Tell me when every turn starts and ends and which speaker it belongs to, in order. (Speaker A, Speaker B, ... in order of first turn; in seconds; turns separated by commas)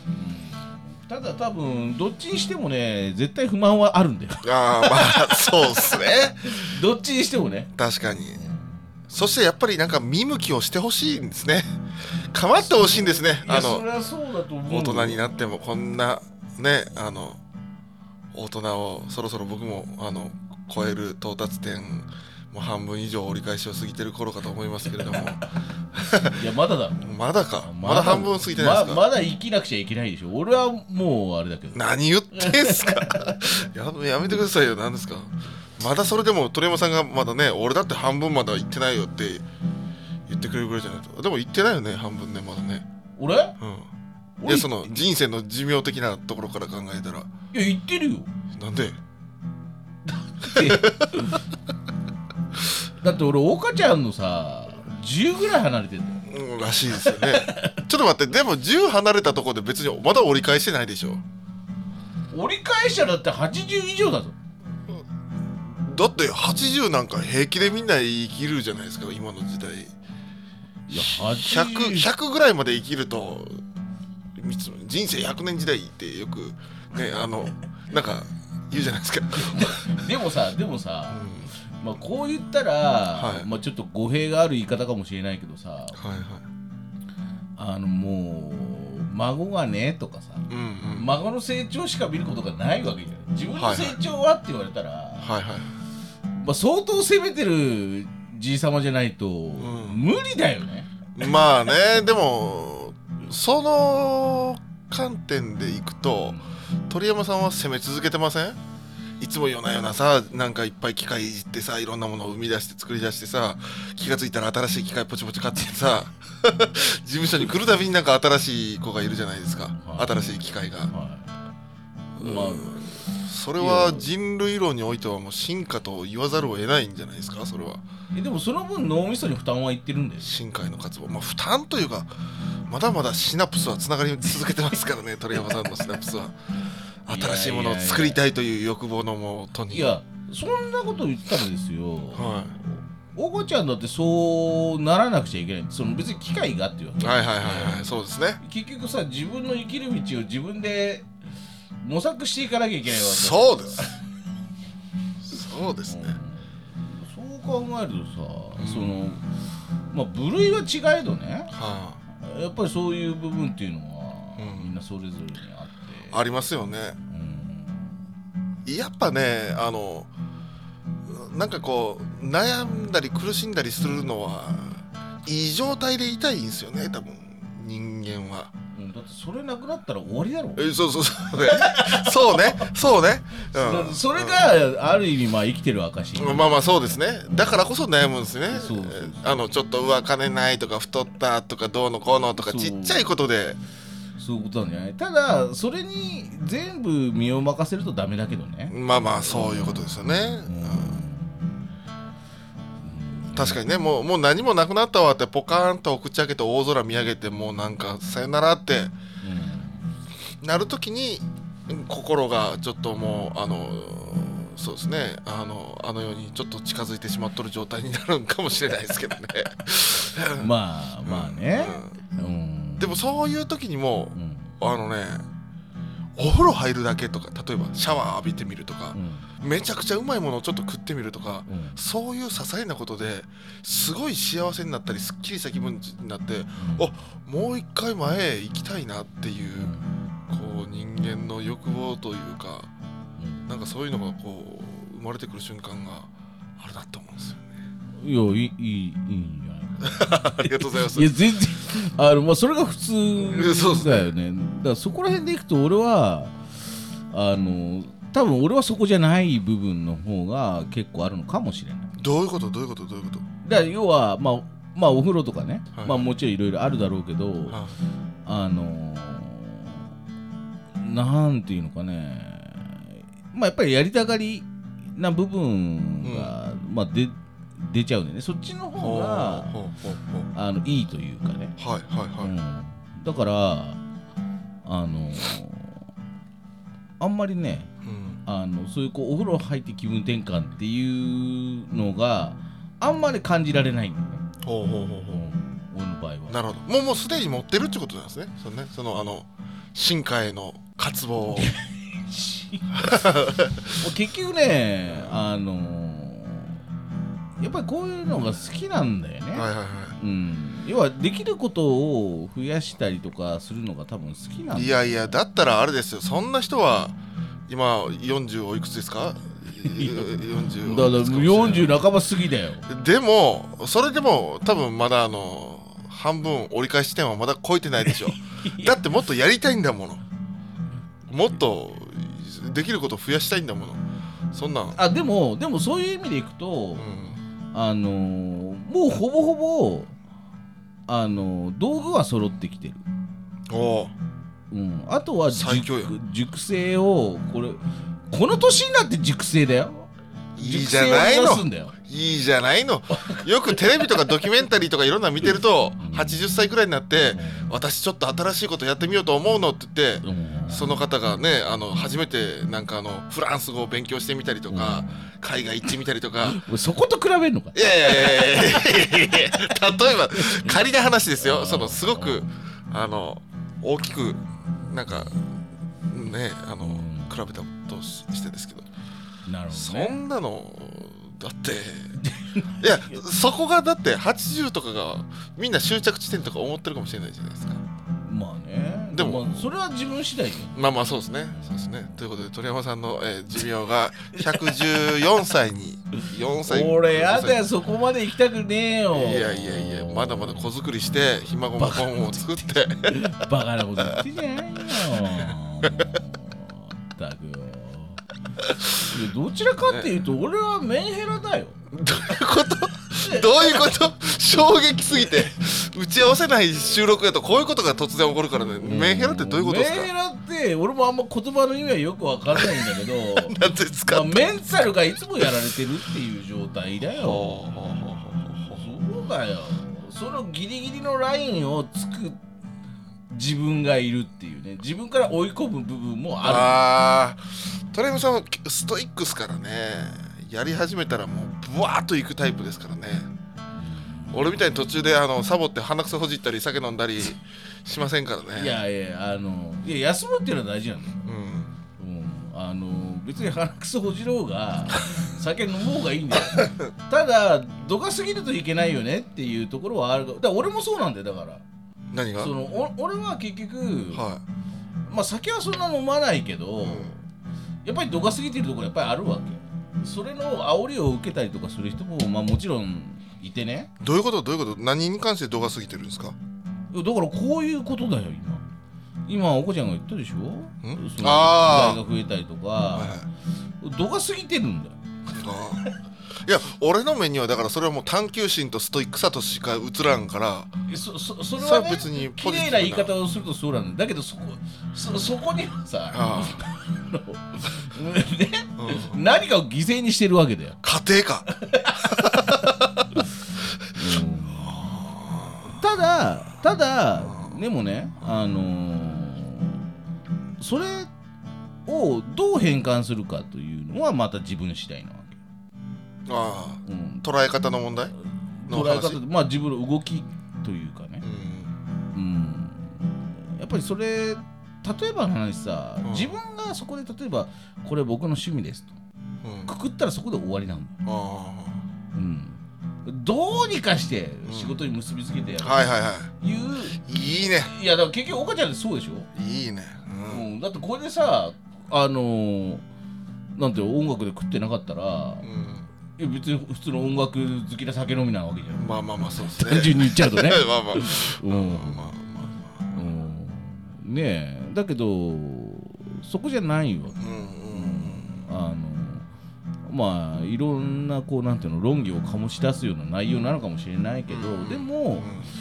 Speaker A: 0.1-7.7, Speaker B: 4.4-6.7, Speaker B: 7.8-8.4, Speaker A: 8.4-8.8, Speaker B: 9.1-11.7, Speaker B: 12.3-13.8, Speaker A: 12.6-15.4, Speaker B: 14.7-17.4, Speaker B: 18.3-25.4, Speaker B: 25.9-26.4, Speaker A: 26.3-33.4, Speaker B: 27.0-29.0, Speaker B: 31.7-39.4, Speaker B: 40.3-42.9, Speaker A: 43.2-43.6, Speaker B: 43.6-43.9, Speaker A: 44.4-45.0, Speaker B: 44.4-47.3, Speaker A: 47.5-48.3, Speaker B: 48.5-49.0, Speaker A: 50.1-51.4, Speaker B: 50.5-51.1, Speaker A: 53.0-56.2, Speaker B: 56.3-61.2, Speaker A: 56.9-57.8, Speaker A: 62.3-64.3, Speaker B: 65.7-69.9, Speaker A: 70.9-72.1, Speaker B: 70.9-73.6, Speaker B: 74.4-80.0, Speaker A: 79.4-86.0, Speaker B: 81.1-81.5, Speaker B: 83.2-83.5, Speaker B: 86.0-86.4, Speaker A: 87.6-95.4, Speaker B: 90.5-91.1, Speaker B: 93.6-94.0, Speaker B: 95.2-95.7, Speaker A: 96.4-100.9, Speaker B: 99.6-100.0, Speaker B: 101.2-108.6, Speaker B: 109.2-120.9, Speaker A: 119.8-120.2, Speaker A: 120.9-121.3, Speaker A: 122.2-122.8, Speaker B: 122.2-127.8, Speaker A: 123.6-124.1, Speaker A: 128.1-130.3, Speaker B: 130.2-132.1, Speaker B: 132.7-136.3, Speaker B: 137.0-139.9, Speaker A: 137.1-138.2, Speaker A: 139.7-151.1, Speaker B: 142.2-142.5, Speaker B: 147.0-148.4, Speaker A: 151.8-154.0, Speaker B: 152.9-153.9, Speaker B: 155.2-156.2, Speaker A: 155.8-159.2, Speaker B: 158.6-159.0, Speaker A: 159.9-161.5, Speaker B: 161.5-162.0, Speaker A: 162.2-166.2, Speaker B: 164.4-164.7, Speaker B: 166.1-167.0, Speaker A: 167.1-168.0, Speaker B: 168.7-170.1, Speaker B: 171.1-178.5, Speaker A: 178.7-180.7, Speaker B: 180.6-184.4, Speaker A: 181.3-182.7, Speaker A: 183.5-186.7, Speaker B: 186.2-193.6, Speaker A: 187.3-187.7, Speaker A: 188.5-189.4, Speaker A: 192.3-193.1, Speaker A: 194.2-201.5, Speaker B: 198.7-201.0, Speaker A: 202.8-203.6, Speaker B: 203.3-208.9, Speaker A: 209.2-209.8, Speaker B: 210.4-220.5, Speaker A: 220.4-223.0, Speaker B: 221.0-222.0, Speaker B: 222.8-225.2, Speaker A: 224.1-224.5, Speaker B: 226.2-239.7, Speaker A: 228.9-229.3, Speaker A: 231.5-231.8, Speaker A: 236.6-236.9, Speaker A: 239.6-239.9, Speaker B: 240.3-242.7, Speaker A: 243.2-243.5, Speaker B: 243.5-247.6, Speaker A: 248.0-256.4, Speaker B: 249.8-251.1, Speaker B: 253.2-254.1, Speaker A: 257.1-261.9, Speaker B: 262.0-263.2, Speaker A: 263.4-267.6, Speaker B: 265.8-266.0, Speaker B: 267.5-267.8, Speaker A: 268.2-269.8, Speaker A: 270.8-279.5, Speaker B: 276.0-276.3, Speaker B: 278.8-280.3, Speaker A: 280.3-281.5, Speaker B: 281.6-282.3, Speaker A: 282.2-283.8, Speaker A: 284.6-285.8, Speaker A: 287.0-287.7, Speaker B: 287.9-288.2, Speaker A: 288.2-294.2, Speaker B: 294.4-295.2, Speaker A: 295.1-296.4, Speaker B: 296.3-301.5, Speaker A: 301.3-302.9, Speaker B: 302.7-303.8, Speaker A: 303.8-306.6, Speaker A: 307.4-315.1, Speaker B: 309.3-310.0, Speaker B: 314.5-317.0, Speaker B: 317.5-321.8, Speaker A: 319.6-322.7, Speaker B: 322.7-330.0, Speaker A: 327.9-328.8, Speaker B: 331.1-334.8, Speaker A: 334.7-336.9, Speaker B: 336.8-337.2, Speaker A: 337.5-339.9, Speaker A: 340.9-342.8, Speaker B: 343.5-343.9, Speaker A: 344.5-351.8, Speaker B: 345.3-345.9, Speaker B: 350.4-366.4, Speaker A: 352.9-354.2, Speaker A: 355.8-356.3, Speaker A: 357.1-357.6, Speaker A: 360.0-360.7, Speaker A: 364.5-365.1, Speaker A: 366.2-369.2, Speaker B: 367.5-375.2, Speaker A: 370.1-370.5, Speaker A: 371.2-372.3, Speaker B: 375.9-378.7, Speaker A: 376.6-377.2, Speaker A: 379.2-380.0, Speaker B: 379.5-382.0, Speaker A: 382.0-383.0, Speaker B: 382.6-387.6, Speaker A: 388.0-390.5, Speaker B: 388.9-389.5, Speaker B: 390.5-397.4, Speaker A: 394.1-394.5, Speaker A: 396.0-400.5, Speaker B: 398.9-402.9, Speaker A: 401.6-408.0, Speaker A: 408.8-411.6, Speaker B: 409.6-409.9, Speaker B: 411.7-419.9, Speaker A: 413.0-413.7, Speaker A: 418.6-427.3, Speaker B: 422.3-424.2, Speaker B: 426.9-428.7, Speaker A: 428.5-432.2, Speaker A: 433.1-436.6, Speaker B: 436.2-443.1, Speaker A: 443.6-444.4, Speaker B: 444.1-448.6, Speaker A: 448.3-451.0, Speaker B: 451.1-451.5, Speaker A: 451.8-461.4, Speaker B: 461.9-462.3, Speaker A: 462.2-464.0, Speaker B: 463.9-464.2, Speaker A: 464.9-467.0, Speaker B: 466.6-466.9, Speaker A: 467.6-473.7, Speaker B: 473.8-476.1, Speaker A: 476.7-478.4, Speaker A: 479.1-483.0, Speaker B: 480.6-481.8, Speaker B: 482.7-483.1, Speaker A: 483.6-484.8, Speaker B: 485.1-485.6, Speaker B: 486.2-490.5, Speaker A: 490.7-500.6, Speaker B: 491.4-492.9, Speaker B: 495.9-496.4, Speaker B: 498.6-499.0, Speaker B: 500.6-501.3, Speaker A: 501.3-503.1, Speaker B: 501.8-502.8, Speaker A: 503.7-504.8, Speaker B: 504.4-505.6, Speaker A: 505.4-509.6, Speaker B: 507.0-507.3, Speaker A: 510.4-510.9, Speaker A: 511.7-515.2, Speaker B: 516.1-517.9, Speaker A: 516.6-517.0, Speaker A: 518.4-521.0, Speaker B: 518.5-519.0, Speaker B: 521.0-521.5, Speaker A: 521.9-528.7, Speaker B: 525.8-526.1, Speaker B: 529.2-529.5, Speaker A: 529.5-530.8, Speaker B: 530.9-531.6, Speaker A: 531.9-536.8, Speaker B: 534.2-534.5, Speaker B: 535.4-536.1, Speaker B: 536.8-537.5, Speaker A: 537.4-539.1, Speaker B: 539.1-540.2, Speaker A: 540.1-542.6, Speaker A: 543.3-545.2, Speaker B: 545.2-545.6, Speaker A: 546.0-548.7, Speaker B: 548.6-552.8, Speaker A: 549.2-551.9, Speaker A: 552.7-559.0, Speaker B: 557.0-558.1, Speaker A: 559.6-565.1, Speaker B: 564.1-565.3